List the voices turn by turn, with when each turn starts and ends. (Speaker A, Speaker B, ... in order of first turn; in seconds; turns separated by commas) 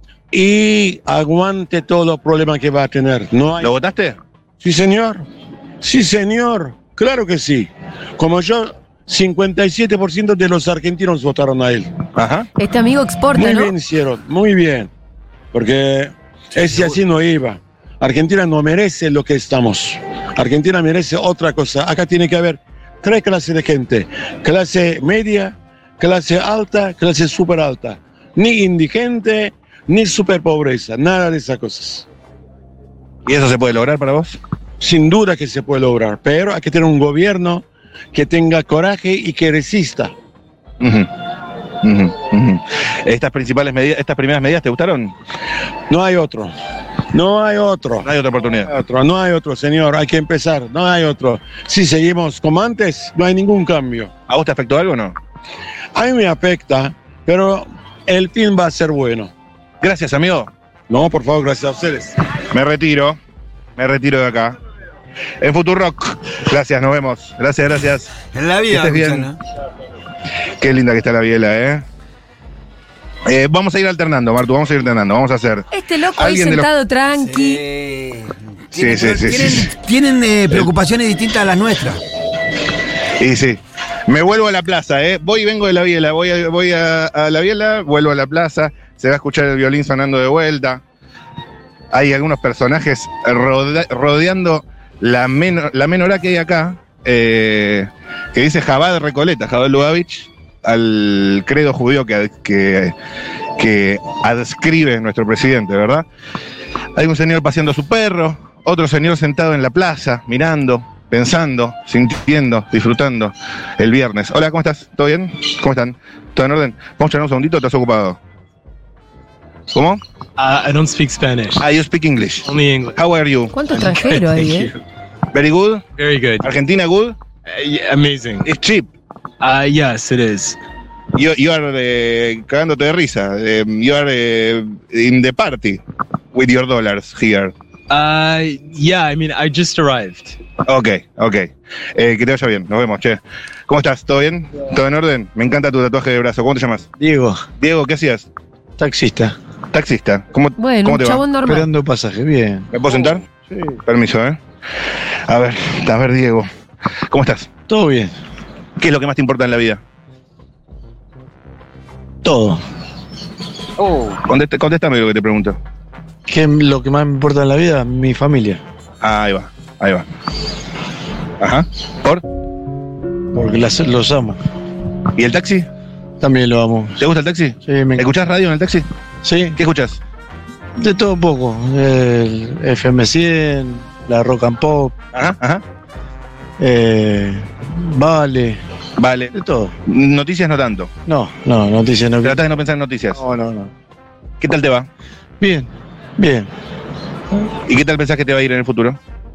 Speaker A: 0.3-3.7, Speaker B: 3.6-4.2, Speaker A: 4.6-5.2, Speaker A: 5.8-11.9, Speaker B: 12.2-12.5, Speaker C: 12.6-13.7, Speaker A: 13.3-14.9, Speaker A: 15.5-32.0, Speaker B: 33.2-34.4, Speaker A: 34.8-40.1, Speaker B: 40.8-41.1, Speaker B: 41.8-45.1, Speaker A: 45.9-46.5, Speaker A: 47.1-48.1, Speaker B: 48.0-48.8, Speaker A: 48.7-54.1, Speaker B: 54.3-55.1, Speaker A: 55.9-59.3, Speaker B: 59.8-60.5, Speaker A: 60.9-62.1, Speaker B: 62.5-63.2, Speaker B: 63.8-64.5, Speaker B: 65.4-69.3, Speaker D: 68.2-69.3, Speaker B: 70.6-71.8, Speaker B: 73.3-76.7, Speaker C: 75.7-77.6, Speaker D: 77.2-82.0, Speaker B: 78.7-79.7, Speaker B: 83.2-90.8, Speaker B: 91.9-102.9, Speaker B: 103.6-106.0, Speaker B: 107.0-118.2, Speaker B: 119.7-120.0, Speaker E: 120.4-121.6, Speaker B: 121.6-123.5, Speaker E: 122.4-123.0, Speaker C: 123.5-124.7, Speaker E: 123.7-124.7, Speaker B: 125.3-125.8, Speaker E: 126.0-126.5, Speaker B: 126.4-127.2, Speaker E: 127.5-128.5, Speaker B: 128.4-128.9, Speaker E: 129.4-130.6, Speaker B: 131.2-135.8, Speaker B: 136.3-137.5, Speaker E: 137.9-140.4, Speaker B: 140.7-146.9, Speaker F: 147.0-147.4, Speaker B: 147.6-148.3, Speaker F: 148.8-149.3, Speaker B: 149.7-151.2, Speaker C: 150.6-151.7, Speaker F: 151.4-152.7, Speaker B: 152.7-153.2, Speaker F: 153.5-153.8, Speaker B: 153.8-154.4, Speaker B: 155.3-156.5, Speaker B: 157.1-157.5, Speaker F: 157.7-158.1, Speaker B: 158.8-159.8, Speaker F: 162.2-162.6, Speaker B: 164.2-165.6, Speaker F: 166.2-168.6, Speaker B: 169.0-170.1, Speaker B: 171.4-172.2, Speaker F: 173.3-174.4, Speaker B: 175.2-175.7, Speaker F: 176.2-177.0, Speaker B: 177.0-178.8, Speaker F: 177.6-178.1, Speaker F: 179.2-179.6, Speaker B: 179.6-180.0, Speaker F: 180.8-184.9, Speaker B: 185.1-185.6, Speaker F: 186.6-188.6, Speaker B: 189.0-189.3, Speaker F: 189.3-189.7, Speaker B: 189.9-190.9, Speaker F: 191.1-192.4, Speaker B: 192.2-193.2, Speaker F: 193.1-193.7, Speaker B: 194.4-194.9, Speaker F: 195.4-196.5, Speaker B: 197.7-199.0